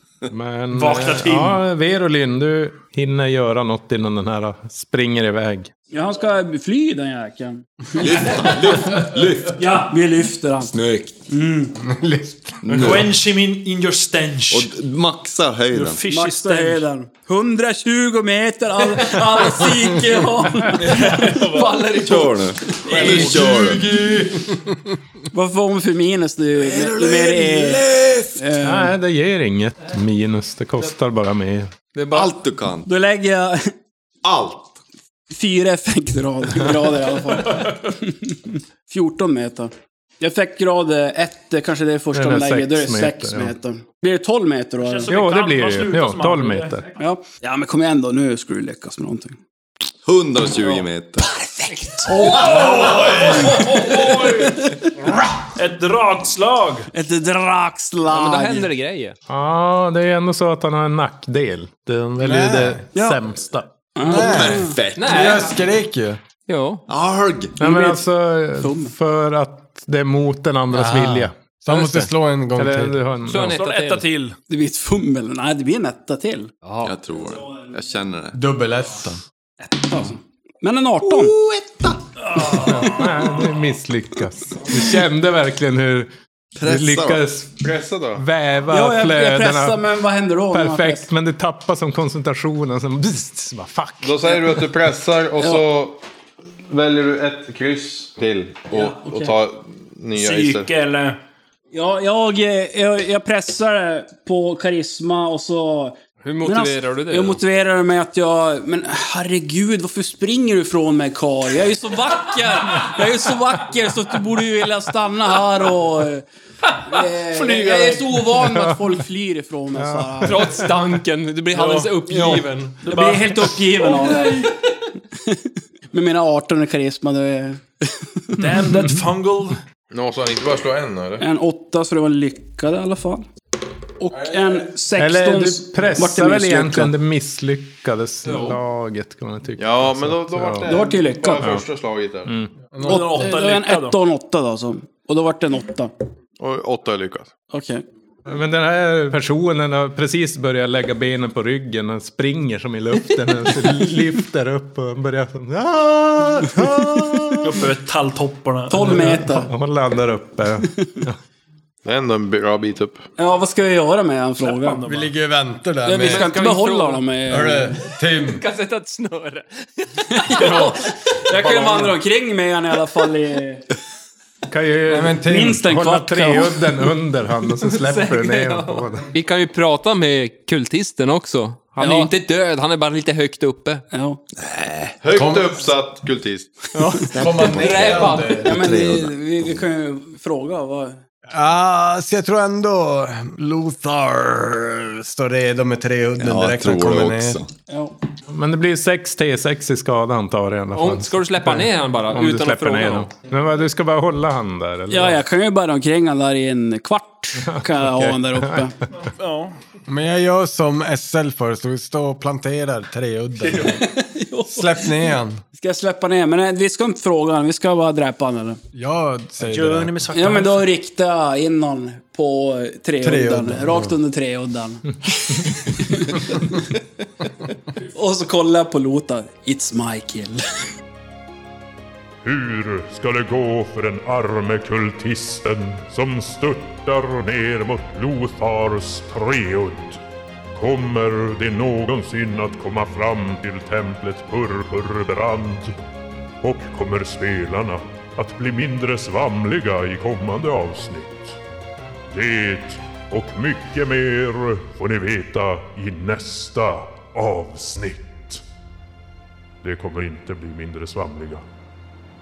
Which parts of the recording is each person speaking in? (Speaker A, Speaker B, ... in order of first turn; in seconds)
Speaker A: 0.3-5.7, 28.6-31.7, 42.1-43.5, 45.1-46.9, 59.3-63.7, 67.6-71.3, 72.5-73.6, 82.5-86.1, 86.6-89.9, 90.5-94.4, 118.3-118.9, 119.7-120.8, 135.0-140.7, 141.4-141.6, 142.2-142.5, 148.2-157.7, 158.8-161.2, 174.5-179.1, 198.3-205.2, 207.4-208.7
Speaker B: 0.7-1.6, 9.5-9.9, 12.7-14.7, 15.7-16.9, 20.8-21.9, 22.8-23.6, 44.8-46.8, 52.1-54.7, 55.5-56.9, 73.5-74.3, 82.2-83.0, 100.1-101.2, 121.5-124.2, 128.4-129.6, 142.8-144.0, 157.4-159.2, 164.4-165.1, 209.0-209.6, 219.4-220.7
Speaker C: 5.9-8.7, 9.8-10.8, 11.3-11.8, 16.1-21.4, 25.3-28.9, 32.8-33.7, 35.3-45.1, 47.0-49.4, 51.9-55.2, 56.9-58.7, 62.9-63.2, 63.9-64.8, 67.6-68.0, 68.6-68.9, 74.5-76.5, 79.6-81.3, 82.4-82.7, 88.7-91.1, 98.7-99.3, 101.7-120.7, 122.8-124.5, 125.1-128.7, 131.2-133.2, 134.0-136.9, 140.6-141.5, 142.8-145.9, 147.5-147.8, 156.6-157.2, 158.7-159.5, 163.2-164.8, 165.8-167.8, 170.1-173.7, 175.2-176.7, 181.8-182.1, 183.9-184.2, 186.7-187.1, 188.4-191.0, 197.7-197.9, 204.9-208.7, 213.6-215.0, 215.6-218.6, 220.1-225.0, 225.6-226.4, 227.9-230.4
Speaker D: 7.9-9.8, 10.7-11.1, 12.6-13.2, 14.5-16.0, 21.9-23.9, 32.1-32.9, 34.2-34.8, 50.0-51.5, 64.0-65.5, 66.9-67.6, 76.8-78.4, 81.0-82.7, 86.5-87.3, 184.4-184.9, 187.0-189.5, 196.2-197.5
Speaker E: 11.8-13.0, 23.0-24.7, 26.7-28.3, 62.2-62.8, 64.0-66.2, 70.7-73.0, 78.3-79.2, 142.7-143.3, 164.8-166.3, 167.3-168.4, 174.9-175.6, 185.1-185.6, 187.1-188.6, 191.3-197.4, 209.9-213.8, 214.5-215.4, 218.7-219.9, 223.0-223.9
Speaker F: 20.8-22.4, 23.0-23.6, 31.9-32.3, 51.7-52.5, 58.1-59.1, 64.9-65.5, 66.5-66.8, 71.7-72.1, 73.2-74.1, 76.6-76.9, 106.2-107.4, 117.5-118.0, 120.2-122.8, 138.2-138.6, 166.0-167.1, 168.1-172.0, 177.6-183.8, 187.4-188.4, 200.7-203.1
Speaker G: 87.6-88.2, 94.0-96.0, 96.7-100.7, 129.9-131.2, 139.6-142.3, 146.4-147.3, 161.8-163.0, 185.0-186.6
Speaker H: 232.2-240.0, 240.5-245.7, 246.4-251.4, 252.1-258.4, 259.6-261.4